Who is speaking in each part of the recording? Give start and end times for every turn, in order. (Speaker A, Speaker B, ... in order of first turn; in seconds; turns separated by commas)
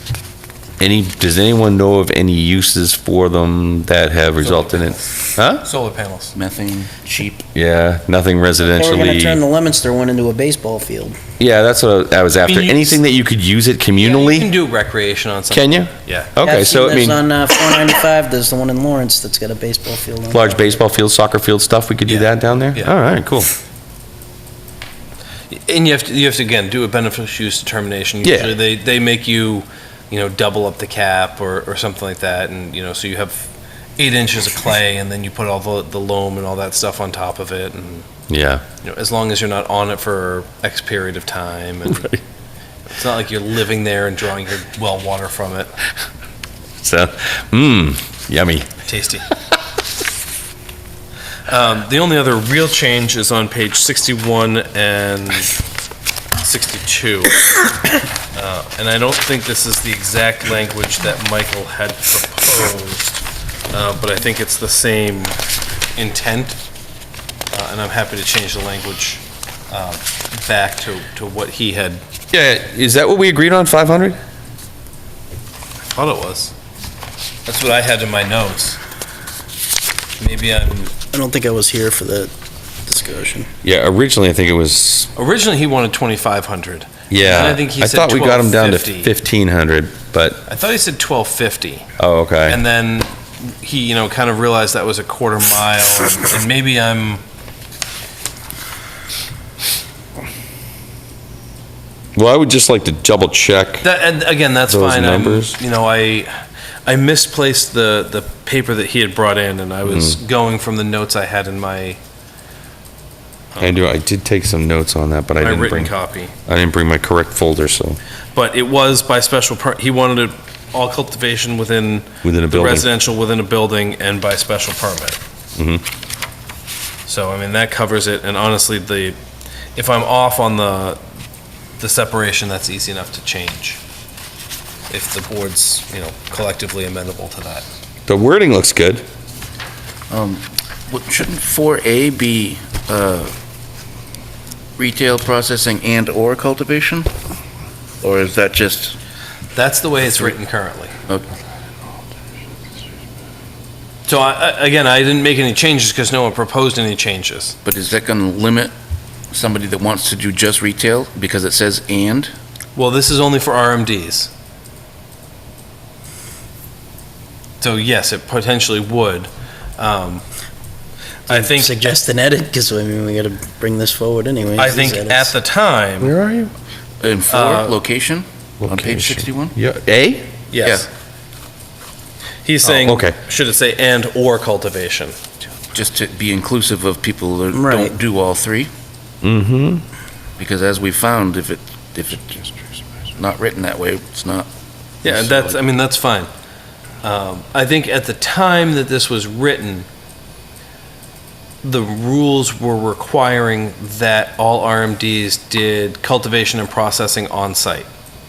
Speaker A: 0.8-5.6, Speaker B: 4.4-6.3, Speaker C: 6.3-7.4, Speaker A: 7.5-9.4, Speaker D: 8.6-11.2, Speaker A: 11.4-14.5, Speaker B: 12.4-13.0, Speaker B: 14.0-16.4, Speaker A: 15.5-17.2, Speaker D: 16.4-20.8, Speaker A: 20.3-23.5, Speaker B: 22.1-22.9, Speaker B: 25.5-38.1, Speaker A: 28.2-28.6, Speaker A: 38.3-38.6, Speaker B: 38.8-42.1, Speaker A: 41.9-42.2, Speaker B: 42.9-45.7, Speaker A: 46.8-48.7, Speaker B: 48.9-49.3, Speaker B: 51.5-55.6, Speaker B: 56.4-57.7, Speaker B: 58.3-65.4, Speaker B: 66.0-66.6, Speaker B: 67.5-72.0, Speaker A: 72.3-74.2, Speaker B: 75.9-76.5, Speaker B: 77.5-78.8, Speaker B: 80.2-80.9, Speaker D: 81.1-82.3, Speaker D: 82.8-83.5, Speaker A: 83.6-85.1, Speaker B: 85.1-89.1, Speaker A: 87.1-90.4, Speaker B: 90.5-91.9, Speaker A: 92.0-92.6, Speaker B: 92.5-97.2, Speaker A: 102.2-103.8, Speaker B: 103.8-106.3, Speaker A: 104.7-105.6, Speaker B: 106.8-112.0, Speaker A: 109.8-110.2, Speaker B: 113.5-113.8, Speaker A: 113.6-115.9, Speaker B: 115.4-116.3, Speaker A: 116.5-118.0, Speaker B: 118.3-125.2, Speaker A: 122.2-122.9, Speaker A: 125.6-125.8, Speaker B: 127.0-129.2, Speaker B: 129.8-131.0, Speaker B: 131.8-133.8, Speaker B: 134.9-137.6, Speaker A: 138.1-139.0, Speaker C: 140.1-143.3, Speaker C: 144.8-147.1, Speaker C: 148.0-149.0, Speaker B: 149.5-150.9, Speaker B: 154.1-157.6, Speaker C: 157.6-158.7, Speaker C: 159.3-162.3, Speaker B: 162.7-164.3, Speaker B: 167.6-170.2, Speaker D: 171.3-175.3, Speaker B: 171.3-171.8, Speaker B: 174.6-176.1, Speaker A: 176.0-176.5, Speaker C: 177.0-179.6, Speaker B: 177.3-177.7, Speaker A: 178.6-180.3, Speaker B: 180.5-180.9, Speaker B: 182.4-185.2, Speaker A: 182.7-183.2, Speaker C: 185.7-188.7, Speaker D: 187.5-187.9, Speaker A: 189.2-189.8, Speaker C: 190.4-192.5, Speaker C: 193.2-194.5, Speaker C: 195.0-195.6, Speaker B: 195.0-196.3, Speaker B: 197.0-199.9, Speaker B: 201.6-207.9